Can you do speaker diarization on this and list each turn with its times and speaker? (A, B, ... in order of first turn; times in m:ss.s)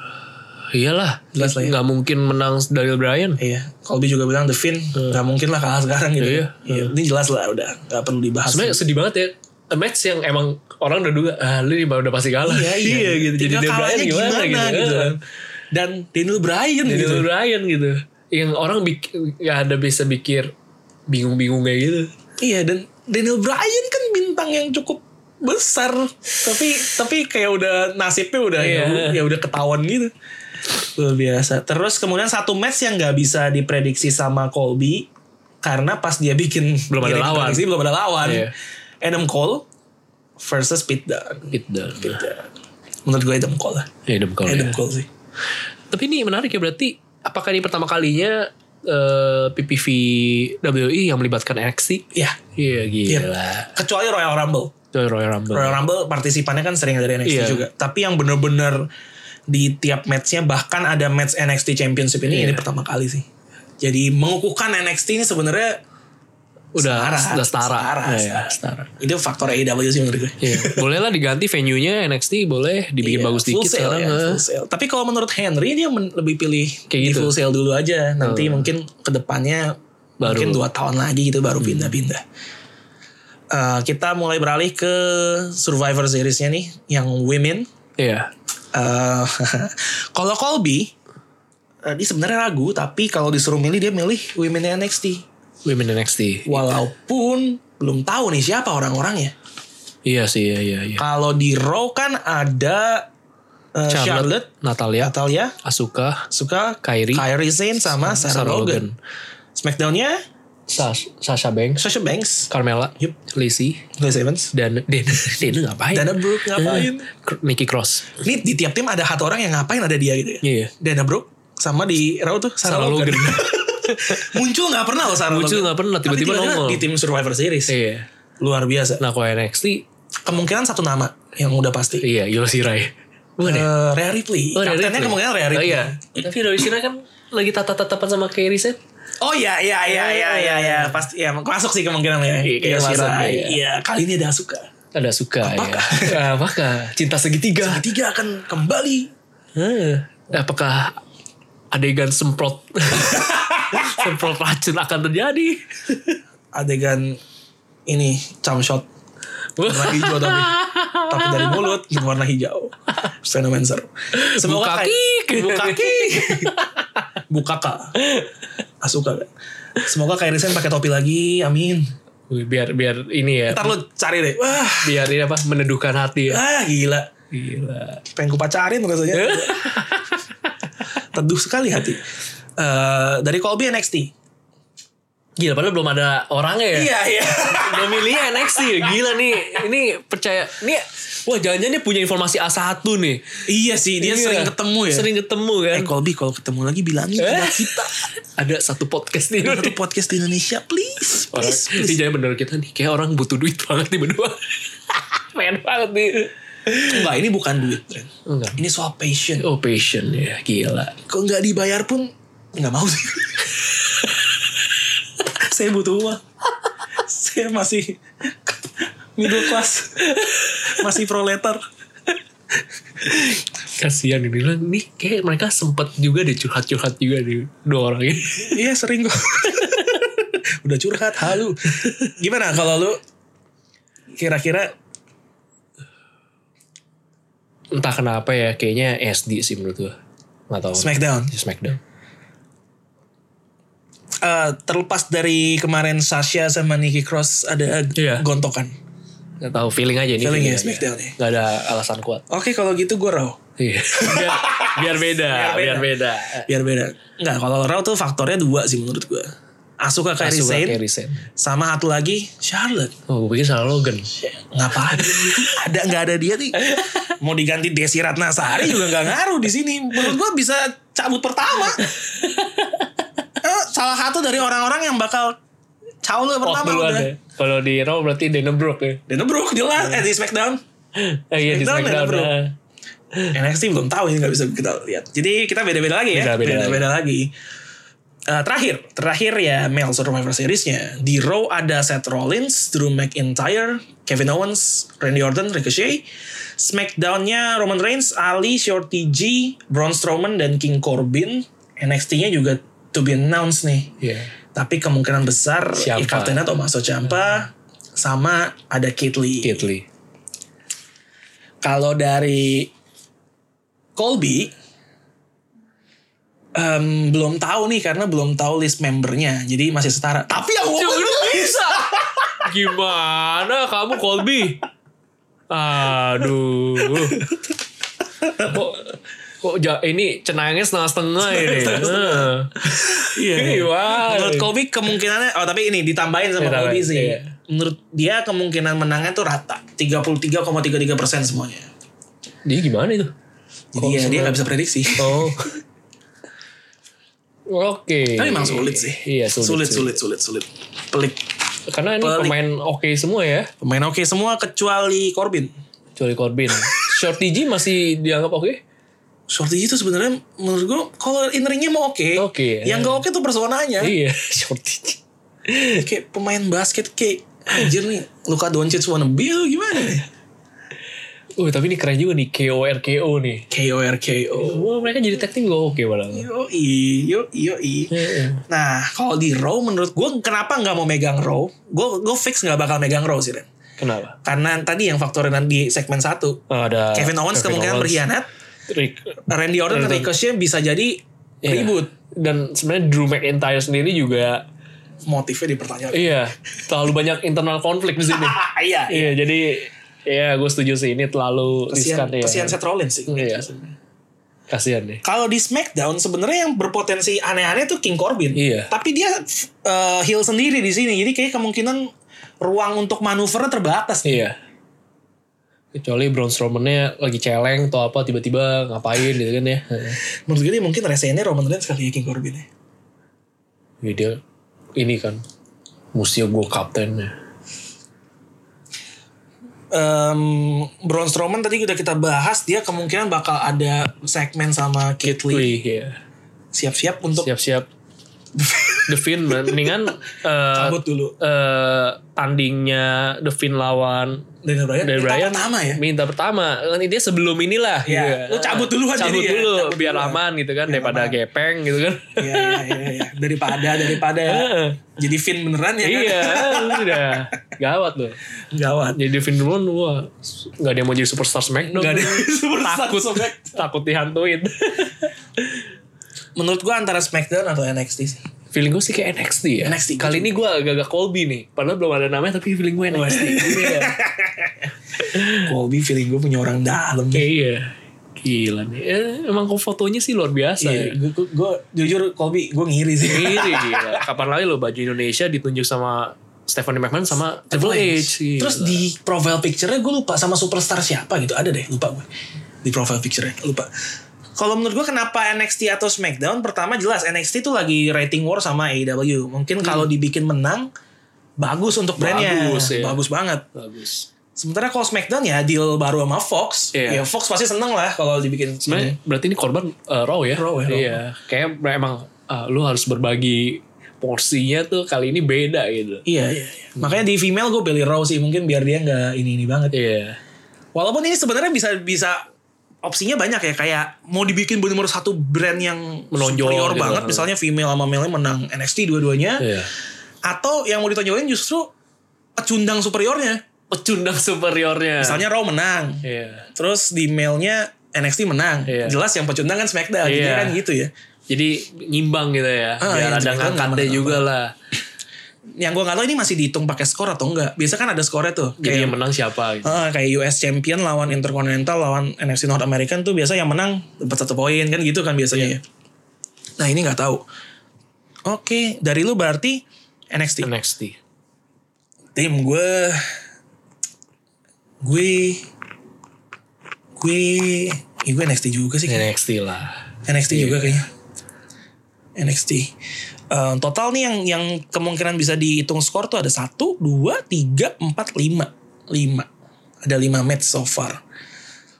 0:00.7-0:03.4 A
0:01.3-0:01.8 B
0:03.4-0:08.8 B
0:06.2-0:06.9 A
0:08.5-0:15.2 A
0:12.4-0:15.2 B
0:15.7-0:17.3 B
0:16.8-0:20.5 A
0:21.1-0:22.1 A
0:22.4-0:30.1 B
0:28.6-0:29.2 A
0:30.7-0:35.1 B
0:35.6-0:39.6 B
0:36.9-0:37.7 A
0:38.2-0:38.5 A
0:40.4-0:42.5 B
0:41.5-0:42.2 A
0:43.0-0:43.9 B
0:44.1-0:44.8 A
0:44.4-0:45.1 B
0:45.9-0:53.8 A
0:53.1-0:54.7 B
0:54.9-0:55.8 A
0:55.5-0:58.8 B
0:57.2-0:57.7 A
0:59.5-1:03.3 B
1:02.3-1:02.6 A
1:03.8-1:05.8 B
1:06.7-1:08.9 A
1:06.8-1:10.9 B
1:10.4-1:14.4 A
1:13.0-1:22.2 B
1:16.9-1:17.4 A
1:18.2-1:18.7 A
1:20.2-1:20.6 A
1:21.6-1:22.0 A
1:23.5-1:27.7 B
1:28.0-1:28.3 A
1:28.7-1:30.9 B
1:31.8-1:35.2 B
1:35.6-1:36.8 A
1:36.5-1:39.3 B
1:40.0-1:41.0 A
1:41.0-1:43.1 B
1:43.8-1:44.5 B
1:43.9-1:46.3 A
1:45.0-1:45.6 B
1:46.3-1:48.9 B
1:46.8-1:49.0 A
1:49.6-1:50.2 B
1:50.7-1:51.8 A
1:51.8-1:53.2 B
1:52.5-1:53.9 A
1:54.0-1:54.5 B
1:54.5-1:58.2 A
1:55.9-1:57.1 B
1:58.2-2:07.7 B
2:00.4-2:00.7 A
2:02.6-2:04.4 A
2:05.2-2:06.8 A
2:07.7-2:08.1 A
2:08.4-2:09.0 B
2:09.0-2:09.8 A
2:10.2-2:12.1 B
2:12.0-2:13.7 A
2:13.4-2:16.1 B
2:14.6-2:18.8 A
2:19.2-2:24.7 B
2:19.9-2:21.0 A
2:22.4-2:23.6 A
2:24.9-2:27.8 A
2:25.4-2:26.2 B
2:27.6-2:29.1 B
2:29.6-2:31.0 A
2:31.7-2:36.2 A
2:33.1-2:33.9 B
2:36.5-2:37.2 B
2:37.9-2:38.9 B
2:39.6-2:41.8 A
2:39.6-2:46.6 B
2:44.1-2:47.1 A
2:47.3-2:47.9 B
2:48.0-2:48.4 A
2:48.8-2:49.3 B
2:49.8-2:51.9 B
2:52.3-2:53.8 A
2:53.5-2:55.0 B
2:54.8-2:56.4 A
2:56.3-2:57.1 B
2:57.3-2:58.0 A
2:58.1-2:59.7 B
2:59.1-3:00.5 A
3:01.0-3:02.0 B
3:02.6-3:04.1 B
3:05.4-3:06.9 A
3:06.7-3:09.0 B
3:07.4-3:13.4 A
3:13.5-3:15.1 B
3:14.0-3:15.9 A
3:15.7-3:18.0 B
3:17.2-3:19.8 A
3:19.4-3:22.0 B
3:21.3-3:27.1 A
3:26.8-3:29.5 B
3:28.3-3:28.6 A
3:29.4-3:31.0 A
3:31.1-3:33.6 B
3:35.2-3:36.2 B
3:37.0-3:40.1 B
3:40.1-3:40.8 A
3:40.6-3:41.6 B
3:43.0-3:48.6 A
3:48.4-3:53.0 B
3:49.5-3:50.0 A
3:51.7-3:52.1 A
3:54.2-3:54.7 B
3:57.7-4:00.0 A
4:00.5-4:01.8 A
4:00.8-4:01.3 B
4:04.2-4:08.7 B
4:08.0-4:08.2 A
4:09.4-4:12.2 A
4:10.2-4:11.2 B
4:12.3-4:13.4 B
4:13.6-4:16.5 A
4:13.9-4:20.8 B
4:20.2-4:21.3 A
4:21.4-4:23.0 B
4:23.1-4:24.2 A
4:24.2-4:31.9 B
4:24.9-4:25.6 A
4:26.6-4:27.2 A
4:28.6-4:29.1 A
4:31.8-4:33.2 A
4:33.4-4:35.4 B
4:36.0-4:37.1 B
4:36.4-4:39.0 A
4:39.1-4:40.6 B
4:41.0-4:42.6 A
4:41.4-4:42.4 B
4:43.3-4:47.3 B
4:46.1-4:46.9 A
4:48.3-4:56.0 B
4:56.6-5:04.0 B
5:04.0-5:04.3 A
5:04.5-5:09.7 B
5:05.8-5:06.5 A
5:09.4-5:09.9 A
5:11.6-5:12.7 B
5:14.0-5:14.5 B
5:16.6-5:22.5 B
5:20.7-5:24.6 A
5:25.5-5:27.3 A
5:26.8-5:27.4 B
5:28.2-5:28.7 B
5:28.4-5:28.9 A
5:29.4-5:34.5 A
5:31.2-5:41.7 B
5:36.4-5:37.3 A
5:42.4-5:43.1 A
5:43.7-5:45.4 B
5:43.8-5:44.4 A
5:45.0-5:45.6 A
5:47.5-5:50.0 A
5:48.2-5:51.3 B
5:51.7-5:53.5 A
5:52.0-5:52.4 B
5:53.6-5:55.5 B
5:56.0-5:58.6 A
5:56.5-5:56.9 B
5:59.3-6:04.0 B
6:02.2-6:03.0 A
6:03.8-6:05.8 A
6:05.8-6:10.1 B
6:11.4-6:13.5 A
6:13.5-6:14.7 B
6:14.4-6:16.3 A
6:16.1-6:17.9 B
6:17.9-6:18.4 A
6:18.5-6:23.5 B
6:23.8-6:24.2 A
6:24.2-6:26.4 B
6:26.5-6:28.0 A
6:26.9-6:28.3 B
6:28.7-6:29.2 A
6:29.3-6:31.9 B
6:29.7-6:30.1 A
6:31.4-6:34.5 A
6:35.0-6:36.2 B
6:35.9-6:38.4 A
6:38.0-6:39.2 B
6:38.9-6:43.5 A
6:41.7-6:43.7 B
6:44.5-6:45.0 A
6:45.0-6:51.9 B
6:48.4-6:48.7 A
6:52.4-6:54.2 B
6:54.0-6:54.4 A
6:55.7-7:00.0 A
7:00.3-7:02.5 B
7:03.8-7:04.2 A
7:04.8-7:05.2 A
7:06.0-7:07.2 A
7:09.7-7:15.6 B
7:15.0-7:16.0 A
7:16.5-7:17.3 B
7:17.1-7:17.7 A
7:18.4-7:19.8 B
7:18.9-7:24.3 A
7:20.5-7:21.2 B
7:24.4-7:25.8 B
7:24.8-7:32.9 A
7:27.8-7:31.2 B
7:32.2-7:37.4 B
7:33.8-7:34.8 A
7:35.8-7:38.2 A
7:38.5-7:39.0 B
7:39.0-7:45.6 A
7:41.7-7:43.6 B
7:46.4-7:48.3 B
7:48.5-7:54.0 A
7:49.6-7:50.3 B
7:52.9-7:54.7 B
7:55.0-7:55.5 A
7:55.3-7:57.3 B
7:57.1-8:01.0 A
8:00.6-8:04.0 B
8:03.1-8:08.8 A
8:07.5-8:12.1 B
8:12.6-8:13.7 B
8:14.4-8:20.7 B
8:19.6-8:19.9 A
8:21.4-8:23.5 B
8:22.0-8:23.0 A
8:23.5-8:24.1 A
8:24.4-8:29.0 B
8:26.7-8:27.0 A
8:28.7-8:36.1 A
8:30.3-8:31.0 B
8:36.1-8:39.7 B
8:39.7-8:40.2 A
8:40.8-8:42.2 B
8:42.8-8:49.5 B
8:46.1-8:47.3 A
8:49.4-8:49.7 A
8:50.3-8:51.7 B
8:52.4-8:53.4 B
8:53.7-8:55.3 A
8:55.0-9:00.9 B
8:56.0-8:56.5 A
8:58.7-8:59.0 A
9:00.0-9:00.6 A
9:01.3-9:04.5 A
9:02.8-9:04.3 B
9:05.6-9:09.0 B
9:08.6-9:09.8 A
9:09.6-9:15.6 B
9:16.6-9:17.2 B
9:18.3-9:20.5 B
9:20.4-9:21.0 A
9:22.2-9:23.1 B
9:24.8-9:25.5 B
9:27.0-9:29.1 B
9:28.9-9:30.8 A
9:30.1-9:30.9 B
9:32.2-9:32.7 B
9:33.3-9:39.3 B
9:39.8-9:41.0 B